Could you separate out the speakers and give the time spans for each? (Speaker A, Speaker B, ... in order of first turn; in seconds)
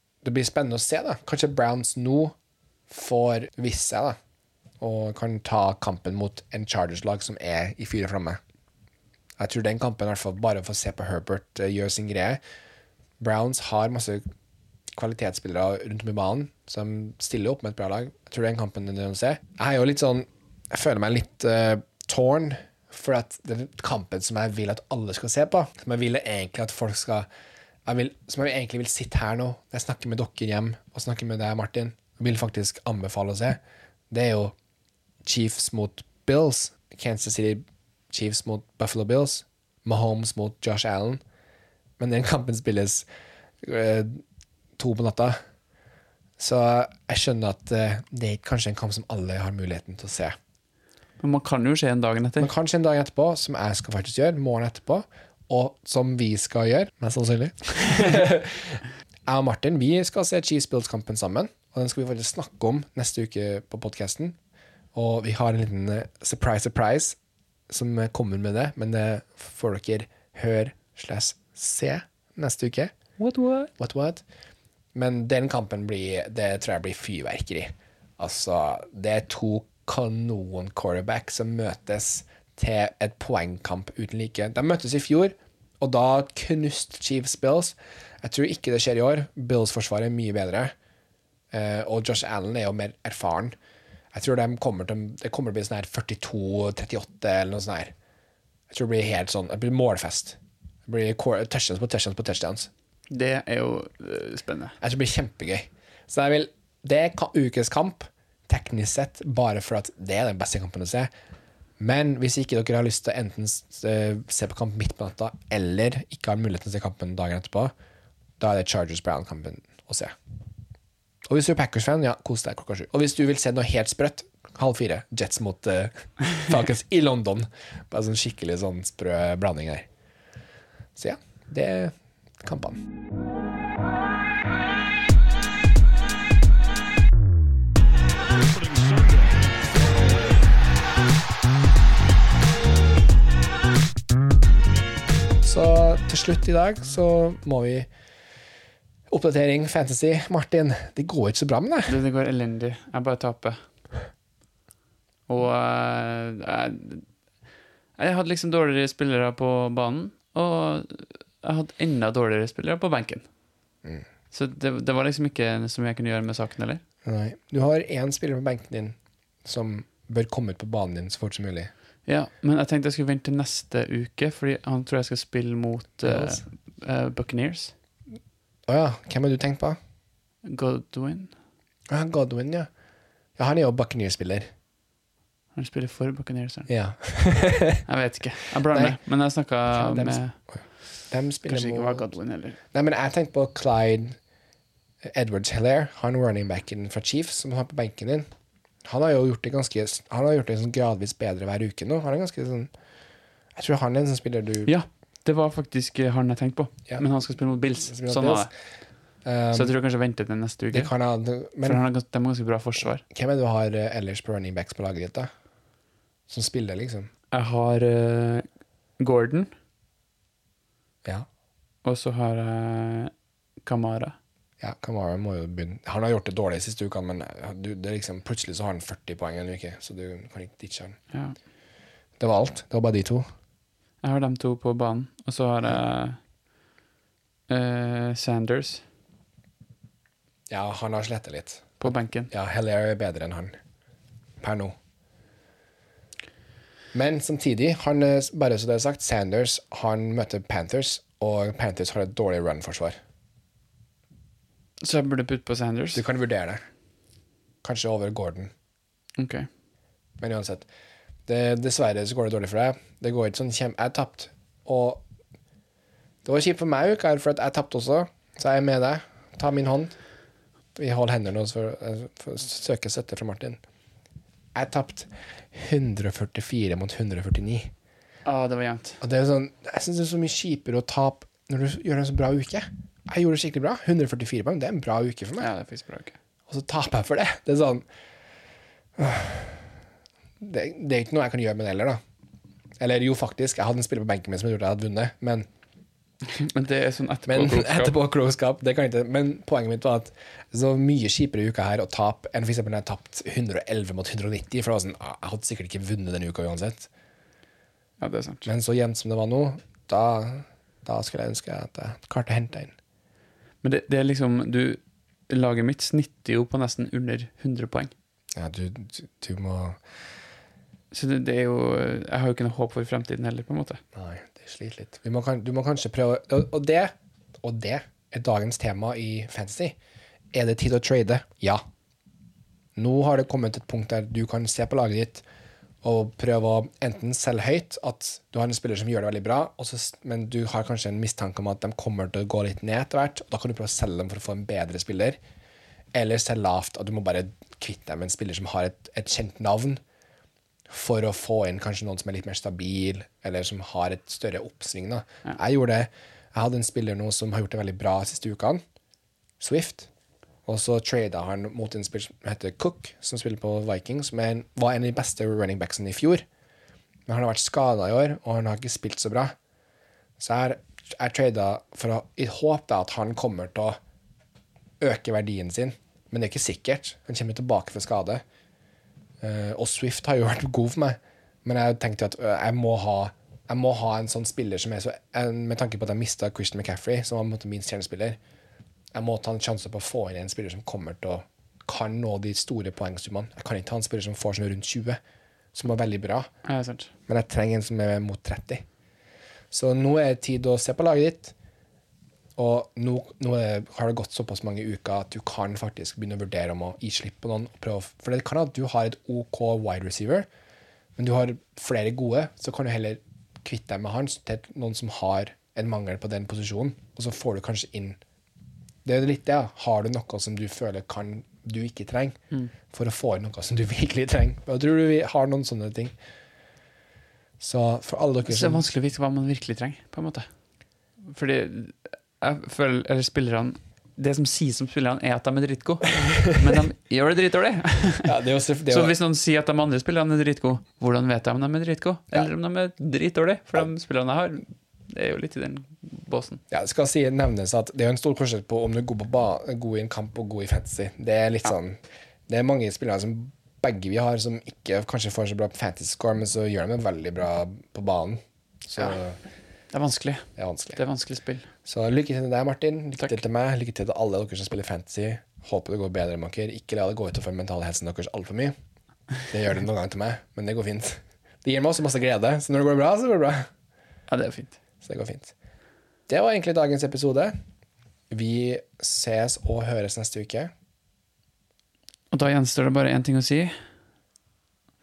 Speaker A: 0.2-2.3, 2.9-4.2, 4.8-8.4, 9.4-12.4, 13.2-14.2, 14.9-27.3, 27.9-33.6, 34.1-34.5, 35.2-41.2, 42.0-43.0, 43.6-44.2, 44.8-45.4, 46.4-50.4, 52.4-64.4, 64.9-67.2, 67.7-72.9, 73.8-74.2, 74.9-90.7, 91.5-93.5, 94.1-97.9, 98.7-102.7, 104.8-111.1, 111.8-117.7, 118.4-120.1, 121.3-129.9, 130.9-132.8, 145.4-147.9, 149.1-151.9, 167.0-171.7, 176.1-176.4, 178.7-179.8, 181.9-182.7, 183.4-184.5, 186.7-187.8, 188.7-189.0, 189.7-192.1, 192.7-194.2, 195.0-198.3, 198.8-202.7, 203.6-204.7, 207.8-208.5, 209.2-209.7, 210.7-211.8, 213.1-215.3, 216.3-217.1, 224.6-231.0, 232.2-233.2, 240.5-243.6, 244.4-244.7, 246.9-253.0, 255.9-256.6, 257.6-258.5, 260.2-260.7, 261.3-265.0, 266.2-269.9, 270.8-273.6, 274.5-277.7, 279.0-285.5, 286.5-287.8, 289.0-289.7, 290.4-292.0, 292.8-295.5, 297.3-306.9, 308.4-312.7, 318.4-319.8, 323.9-326.9, 327.4-329.7, 330.3-331.6, 332.8-335.2, 335.8-345.2, 345.9-349.8, 350.7-358.6, 359.4-359.9, 360.4-366.2, 367.1-369.3, 370.2-373.8, 374.8-378.2, 379.2-388.2, 388.9-395.0, 395.5-396.3, 397.1-398.6, 399.5-401.3, 402.4-410.3, 411.0-418.0, 418.8-422.2, 422.7-425.9, 427.4-428.6, 436.0-436.6, 438.0-438.9, 446.5-459.2, 460.4-460.8, 461.6-468.5, 469.3-473.5, 474.8-475.3, 476.1-477.3, 478.1-480.5
Speaker B: 51.2-52.5, 73.2-73.7, 103.1-104.8, 151.9-153.6, 155.3-157.0, 158.0-163.2, 164.3-166.8, 172.1-177.7, 180.4-181.3, 185.5-186.7, 187.8-190.3, 191.4-192.6, 204.7-208.5, 209.5-210.9, 211.6-213.0, 217.3-218.4, 219.0-219.5, 221.8-223.1, 223.6-224.2, 231.1-231.3, 234.0-236.2, 237.5-238.8, 241.8-242.3, 254.8-256.0, 259.2-259.5, 278.2-279.0, 285.4-286.1, 296.2-297.9, 308.0-308.5, 313.6-317.9, 320.9-323.8, 396.4-396.9, 428.2-430.3, 431.0-438.1, 438.7-446.4, 459.7-461.5, 474.1-474.6, 482.1-483.5
Speaker C: 138.2-140.4